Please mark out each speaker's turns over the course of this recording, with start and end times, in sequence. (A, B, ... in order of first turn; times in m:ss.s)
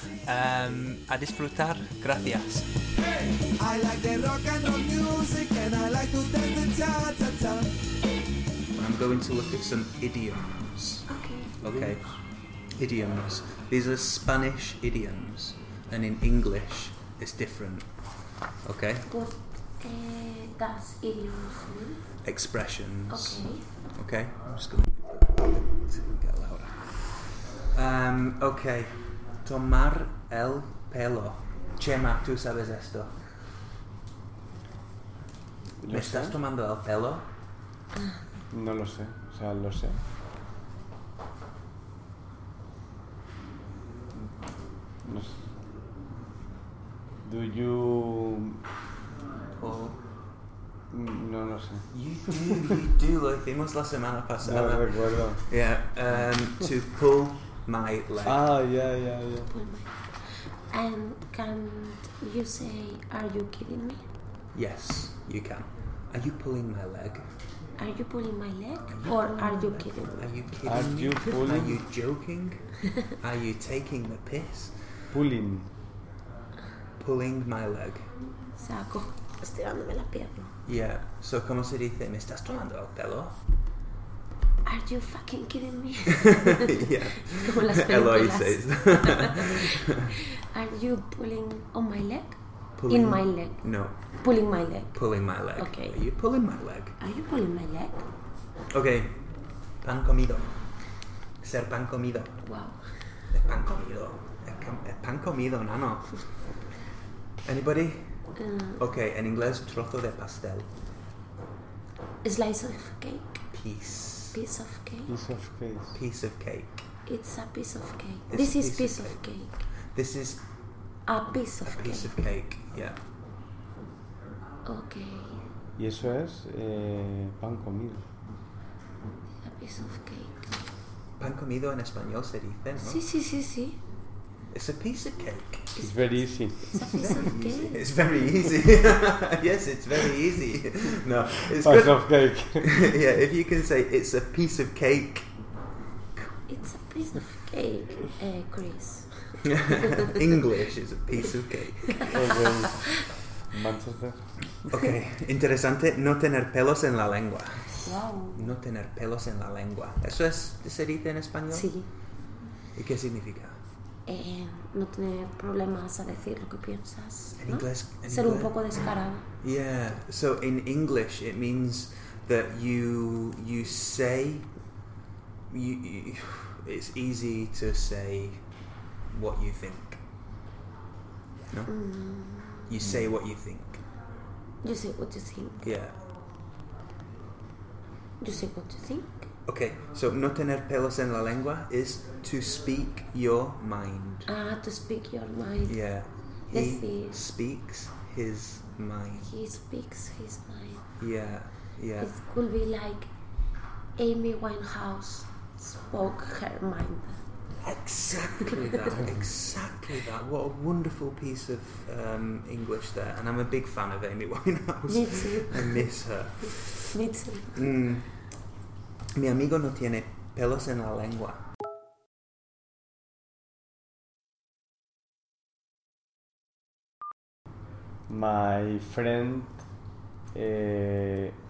0:00.2-0:02.7 A
0:03.2-0:07.7 B
0:03.6-0:05.4 A
0:08.8-0:11.1 A
0:11.1-0:11.6 C
0:11.6-0:12.0 A
0:12.8-0:17.9 A
0:18.6-0:19.1 A
0:19.1-0:22.0 C
0:22.2-0:33.2 A
0:23.1-0:23.7 C
0:35.8-0:36.4 D
0:35.9-0:37.2 A
0:38.5-0:40.0 D
0:45.0-0:45.5 D
0:47.2-0:48.6 D
0:49.6-0:50.0 A
0:50.9-0:52.7 D
0:51.9-0:58.4 A
0:54.4-0:55.4 D
0:58.2-0:59.5 D
0:59.5-1:04.0 C
1:04.5-1:07.2 A
1:07.8-1:10.3 C
1:08.9-1:12.6 A
1:10.6-1:11.8 D
1:13.1-1:14.7 A
1:15.1-1:15.7 D
1:17.0-1:18.0 A
1:18.6-1:20.5 C
1:20.7-1:23.4 A
1:24.6-1:32.4 C
1:26.1-1:30.1 A
1:32.8-1:34.0 A
1:32.9-1:33.6 C
1:34.2-1:35.0 C
1:34.9-1:37.0 A
1:35.6-1:36.0 C
1:37.0-1:38.1 C
1:38.7-1:39.2 A
1:39.8-1:40.6 A
1:41.4-1:42.4 A
1:42.4-1:42.8 C
1:43.3-1:46.3 A
1:47.4-1:48.2 A
1:48.4-1:48.8 C
1:48.8-1:50.7 A
1:52.2-1:53.4 C
1:53.5-1:54.4 A
1:54.3-1:55.1 C
1:55.1-1:56.0 D
1:55.9-1:56.8 A
1:57.0-1:59.6 C
1:58.3-1:59.2 A
1:59.9-2:00.4 A
2:01.1-2:02.1 C
2:01.7-2:03.0 A
2:04.7-2:05.4 C
2:05.8-2:08.0 D
2:09.4-2:10.4 C
2:11.2-2:13.0 A
2:12.8-2:13.8 C
2:14.5-2:15.9 A
2:15.8-2:17.8 C
2:15.8-2:17.3 D
2:17.1-2:25.3 A
2:21.6-2:22.8 D
2:26.4-2:30.1 C
2:29.5-2:32.5 A
2:32.1-2:32.9 D
2:33.5-2:34.3 D
2:34.7-2:41.7 A
2:37.8-2:38.5 C
2:41.5-2:41.9 C
2:42.8-2:43.6 A
2:44.0-2:49.2 C
2:47.4-2:48.7 A
2:49.4-2:54.5 A
2:55.5-2:58.4 A
2:59.1-3:00.0 A
3:01.7-3:02.9 C
3:02.7-3:03.8 A
3:04.6-3:05.8 C
3:05.6-3:05.9 A
3:08.2-3:09.3 C
3:09.5-3:14.3 A
3:14.3-3:15.8 C
3:15.7-3:19.3 A
3:16.5-3:17.2 C
3:19.2-3:20.8 C
3:21.0-3:22.1 A
3:22.0-3:23.1 C
3:24.0-3:27.2 C
3:27.6-3:37.0 A
3:34.9-3:35.8 C
3:36.9-3:37.6 C
3:37.6-3:38.1 A
3:39.2-3:41.4 A
3:48.1-3:49.6 D
3:50.3-3:51.3 D